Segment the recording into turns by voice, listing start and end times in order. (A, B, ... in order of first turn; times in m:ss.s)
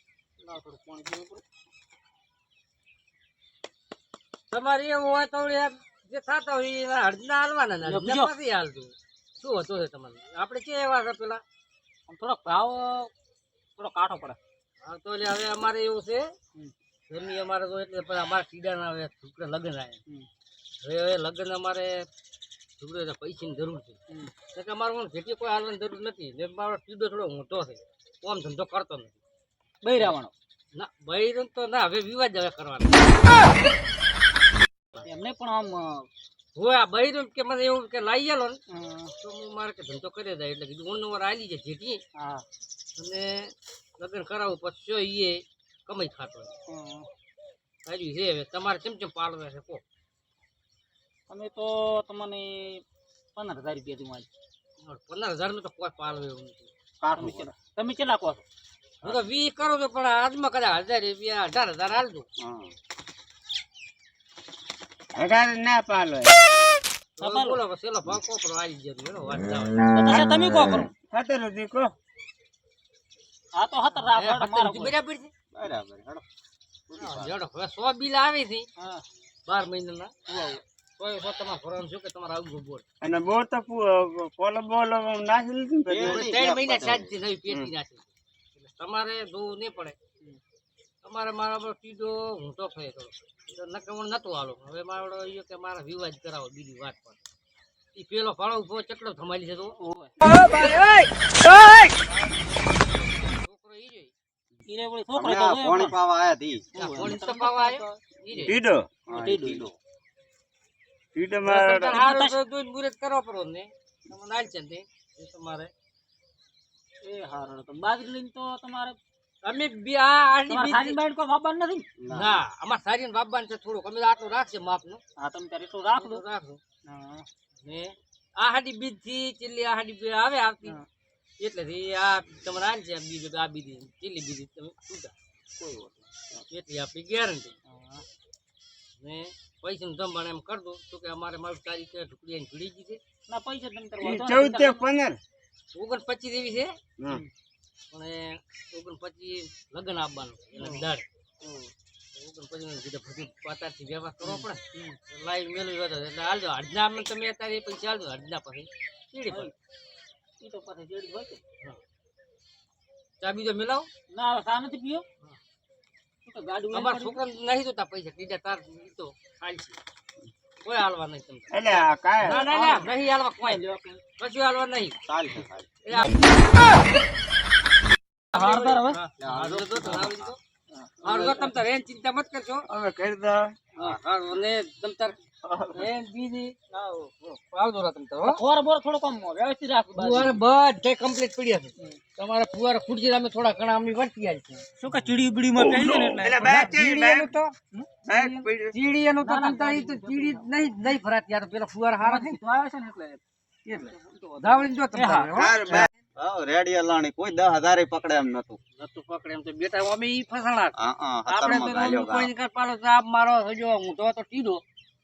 0:00.4-0:01.4 A
0:04.5-0:11.4 B
0:07.8-0:08.3 A
0:12.1-0:13.1 A
0:13.8-0:14.4 A
0:14.8-0:16.2 B
0:17.1-0:20.0 B
0:20.8-0:22.0 B
0:22.8-0:24.0 B
0:24.1-0:24.3 A
0:24.5-0:29.1 B
0:29.8-0:30.3 A
0:30.7-0:33.1 B
0:34.9-0:36.1 A
0:36.5-0:38.6 B
0:38.7-0:39.1 A
0:39.2-0:42.0 B
0:42.2-0:42.4 A
0:43.0-0:46.5 B
0:46.7-0:47.1 A
0:47.8-0:49.8 B
0:51.3-0:52.8 A
0:53.4-0:54.3 A
0:54.8-0:56.7 B
0:57.0-0:57.5 C
0:57.1-0:58.4 A
0:59.0-1:02.2 B
1:02.4-1:02.7 C
1:05.1-1:06.4 D
1:07.2-1:09.8 B
1:07.2-1:07.6 A
1:09.9-1:10.9 A
1:11.1-1:11.9 D
1:13.5-1:14.9 A
1:13.9-1:15.3 B
1:15.5-1:16.2 C
1:16.9-1:17.4 C
1:17.0-1:18.6 B
1:18.8-1:19.0 A
1:19.4-1:20.1 B
1:20.3-1:20.6 A
1:21.0-1:22.8 B
1:23.0-1:26.3 D
1:25.9-1:27.2 C
1:26.0-1:30.0 B
1:31.0-1:37.2 B
1:37.9-1:42.0 B
1:39.8-1:40.2 A
1:42.8-1:44.1 B
1:44.6-1:46.0 A
1:45.2-1:46.7 C
1:46.7-1:48.5 A
1:46.7-1:48.6 B
1:48.4-1:48.9 D
1:49.1-1:49.7 A
1:49.1-1:49.8 C
1:51.1-1:52.0 D
1:51.4-1:55.7 B
1:51.8-1:52.4 A
1:57.0-1:59.0 A
1:59.4-2:01.0 B
2:00.5-2:01.9 A
2:02.0-2:02.4 C
2:02.1-2:05.0 B
2:05.2-2:06.2 A
2:06.0-2:06.6 B
2:06.8-2:07.2 A
2:07.6-2:10.8 B
2:11.4-2:15.1 B
2:15.6-2:16.4 A
2:16.5-2:17.5 B
2:17.6-2:18.0 A
2:19.0-2:23.0 B
2:23.3-2:24.8 A
2:24.0-2:25.2 D
2:25.7-2:26.8 B
2:27.0-2:27.2 D
2:27.9-2:31.0 B
2:30.6-2:30.8 A
2:31.4-2:31.7 A
2:32.1-2:39.5 B
2:34.2-2:35.0 A
2:39.3-2:39.5 A
2:40.4-2:41.4 A
2:43.2-2:43.9 B
2:44.1-2:45.0 A
2:46.2-2:47.2 A
2:46.7-2:49.8 B
2:50.6-2:53.6 B
2:51.5-2:52.4 D
2:52.3-2:54.0 A
2:54.2-2:55.0 B
2:55.0-2:55.7 C
2:55.8-2:56.8 B
2:58.3-2:59.0 A
2:58.3-3:00.4 B
2:59.2-3:00.3 C
3:00.7-3:01.5 A
3:01.0-3:02.7 B
3:02.7-3:03.5 D
3:03.8-3:05.2 B
3:05.4-3:05.9 D
3:05.7-3:06.5 B
3:06.7-3:07.2 A
3:07.2-3:08.4 B
3:08.2-3:10.4 A
3:09.9-3:14.6 B
3:14.8-3:16.7 A
3:15.7-3:17.3 D
3:16.4-3:17.5 B
3:17.7-3:18.5 A
3:18.0-3:18.8 D
3:18.7-3:22.4 B
3:19.2-3:20.5 A
3:22.0-3:23.2 A
3:23.7-3:25.5 A
3:24.4-3:25.5 B
3:25.3-3:25.9 D
3:25.3-3:28.6 C
3:28.8-3:30.8 B
3:30.8-3:32.3 C
3:31.3-3:34.6 B